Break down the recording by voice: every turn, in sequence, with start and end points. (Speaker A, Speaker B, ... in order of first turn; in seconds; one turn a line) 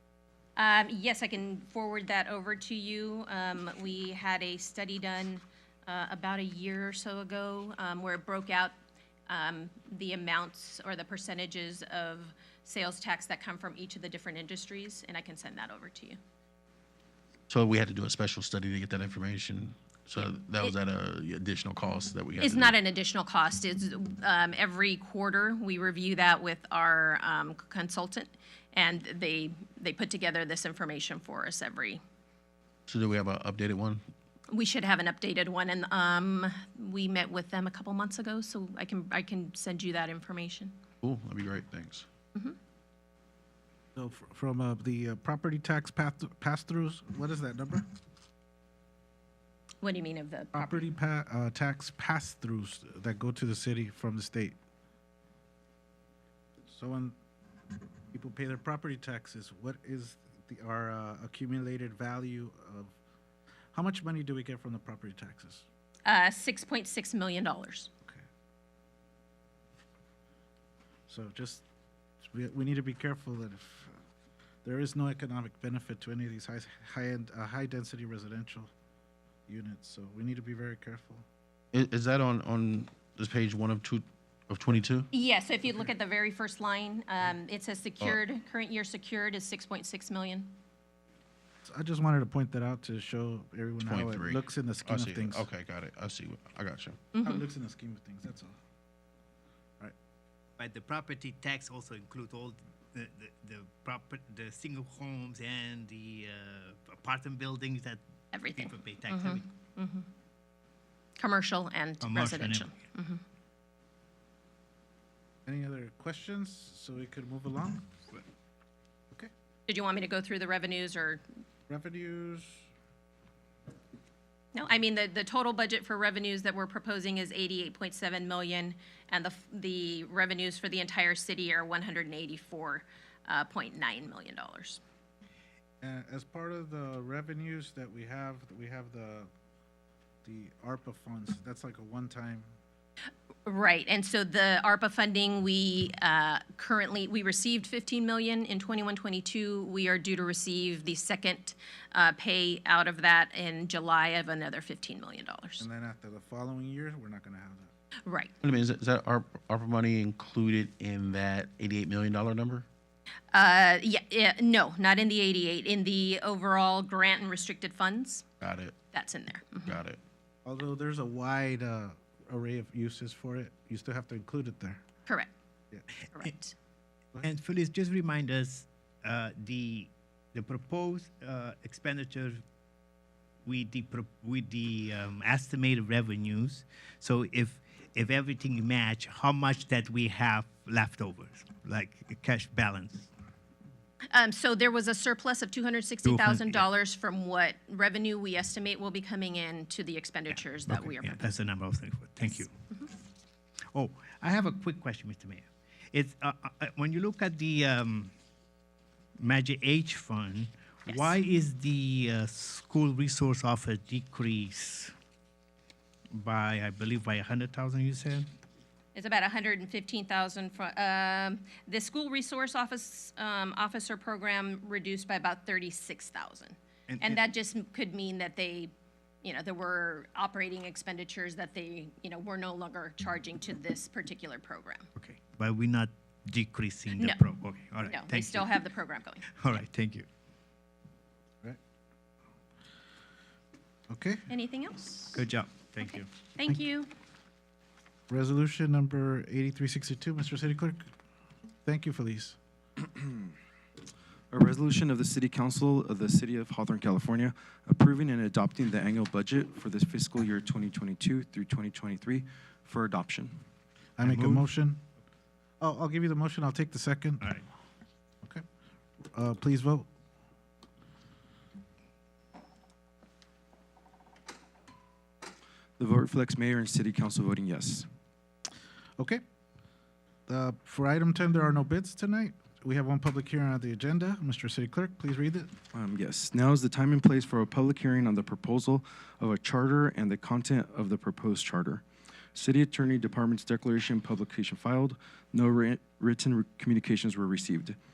Speaker A: 0.6-8.7
Speaker A: 9.3-16.2
Speaker B: 17.5-22.8
Speaker A: 20.2-20.8
Speaker A: 22.4-32.0
Speaker B: 32.9-34.0
Speaker A: 34.5-40.8
Speaker B: 41.0-42.1
Speaker C: 44.0-47.9
Speaker A: 49.8-50.9
Speaker C: 50.5-54.6
Speaker C: 56.7-57.2
Speaker C: 58.1-63.0
Speaker C: 63.7-65.7
Speaker A: 66.1-67.9
Speaker C: 71.1-71.6
Speaker C: 72.2-74.0
Speaker C: 74.6-78.7
Speaker C: 79.5-81.2
Speaker B: 81.7-85.1
Speaker A: 85.1-90.5
Speaker C: 91.7-95.5
Speaker B: 93.8-97.2
Speaker A: 97.1-97.4
Speaker C: 97.2-98.5
Speaker D: 100.6-108.0
Speaker A: 108.3-110.1
Speaker D: 108.6-109.5
Speaker A: 111.2-113.2
Speaker D: 112.0-112.7
Speaker C: 115.5-117.9
Speaker A: 119.7-121.2
Speaker C: 121.7-122.7
Speaker A: 124.5-134.8
Speaker C: 135.8-139.3
Speaker C: 140.2-142.5
Speaker A: 143.5-155.7
Speaker C: 155.6-157.7
Speaker A: 158.1-158.3
Speaker B: 158.4-162.7
Speaker A: 163.3-168.3
Speaker B: 168.4-168.9
Speaker A: 168.9-169.8
Speaker B: 169.7-170.0
Speaker C: 170.4-174.8
Speaker A: 175.1-175.3
Speaker A: 176.1-176.6
Speaker D: 177.2-182.4
Speaker D: 183.4-193.1
Speaker A: 194.1-201.2
Speaker D: 196.0-196.6
Speaker D: 200.7-202.5
Speaker D: 203.7-208.1
Speaker D: 209.2-214.9
Speaker A: 210.9-211.1
Speaker D: 216.1-218.3
Speaker A: 218.9-228.7
Speaker D: 226.9-227.2
Speaker A: 229.2-234.9
Speaker D: 235.0-238.6
Speaker A: 237.0-237.2
Speaker A: 237.8-239.3
Speaker D: 239.3-240.1
Speaker C: 243.9-244.3
Speaker A: 244.3-245.2
Speaker D: 245.1-246.1
Speaker A: 245.8-246.9
Speaker C: 248.1-250.9
Speaker C: 251.7-252.4
Speaker E: 254.3-263.3
Speaker C: 264.0-264.8
Speaker D: 264.0-264.5
Speaker C: 265.6-267.2
Speaker C: 269.1-269.9
Speaker E: 275.8-277.9
Speaker C: 280.3-285.5
Speaker E: 285.7-297.8